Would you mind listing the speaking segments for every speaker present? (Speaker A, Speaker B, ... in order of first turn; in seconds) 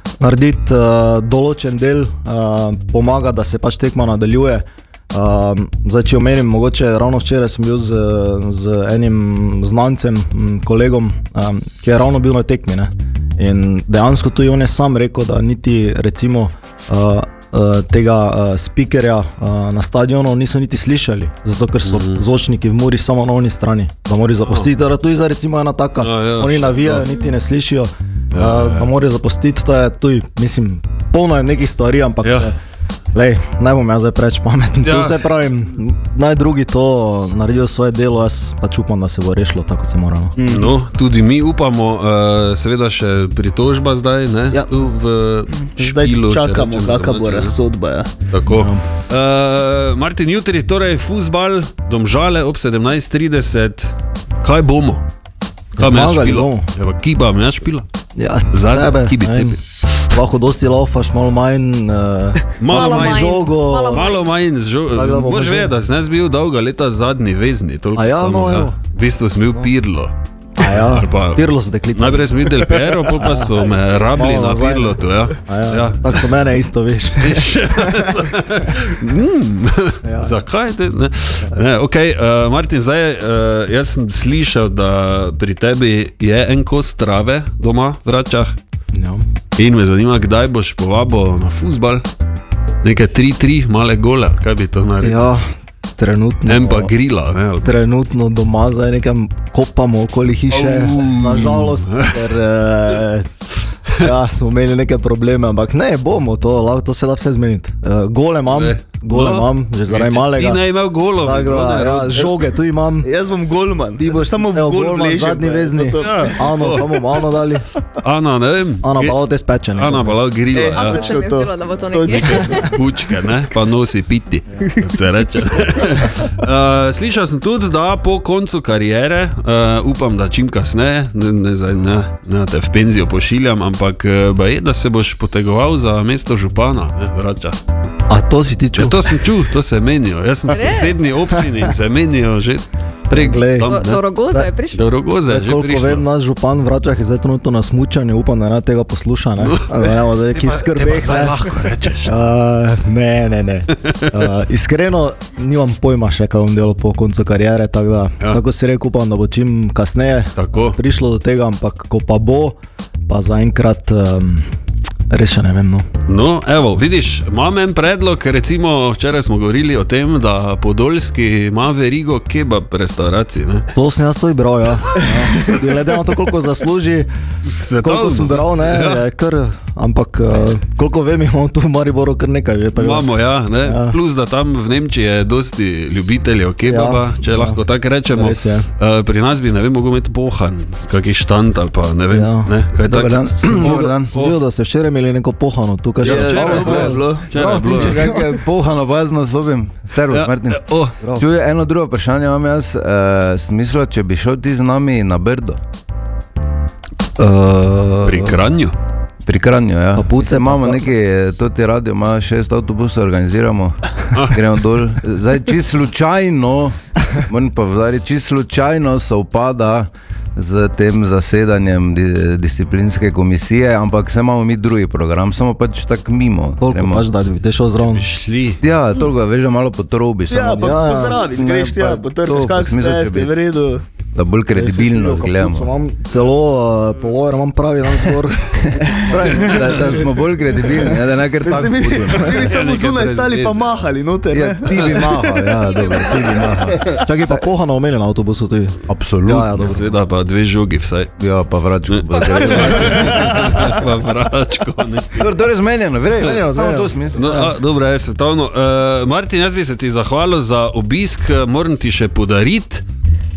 Speaker A: 0.2-32.5, 33.1-40.4, 48.5-48.8, 55.7-56.7, 58.1-59.6, 60.1-64.1, 64.9-65.7, 68.0-68.8, 70.6-78.3, 80.0-80.4, 88.9-89.2, 95.0-95.5, 96.0-96.9, 97.6-103.3, 104.0-110.6, 111.2-113.1, 114.0-117.7, 118.8-120.2, 138.1-139.2, 141.3-141.7, 143.1-144.5, 145.2-151.5, 152.0-162.6, 163.1-164.5, 165.1-165.8, 173.7-177.1, 177.8-183.1, 183.6-184.0, 186.6-188.7, 192.1-192.5, 193.4-197.0, 207.2-208.4, 209.9-210.8, 226.6-228.0, 230.6-231.2, 234.5-239.6, 246.8-249.9, 256.2-257.5
Speaker B: 21.8-22.2, 26.0-27.1, 28.3-28.9, 32.2-32.5, 34.8-35.2, 40.5-47.5, 48.3-55.0, 55.8-57.9, 58.5-60.1, 62.6-71.4, 71.9-76.6, 77.2-88.5, 89.6-92.0, 92.8-95.2, 96.5-97.7, 100.5-102.3, 108.5-112.3, 116.0-116.9, 117.9-119.2, 119.7-121.2, 122.1-137.6, 138.8-144.0, 144.7-146.0, 149.4-152.3, 160.3-160.8, 166.1-173.7, 174.8-175.6, 177.4-179.0, 182.8-194.4, 196.0-198.0, 200.1-200.9, 208.0-208.7, 227.9-228.6, 242.4-243.9, 249.6-251.1, 251.9-255.3, 256.2-256.5, 257.1-262.8
Speaker C: 40.4-40.7, 44.5-44.8, 45.6-48.1, 113.0-116.3, 120.5-122.6, 196.0-197.4, 230.3-233.8, 238.8-239.6, 241.4-245.4
Speaker D: 62.7-64.3, 120.6-122.8, 140.5-140.9, 143.5-144.8, 252.1-252.9
Speaker E: 192.9-194.1, 196.1-205.6, 209.2-227.1, 228.6-233.3, 234.1-235.7, 238.7-242.6, 244.3-247.1, 248.9-249.8, 251.2-253.7, 255.2-257.5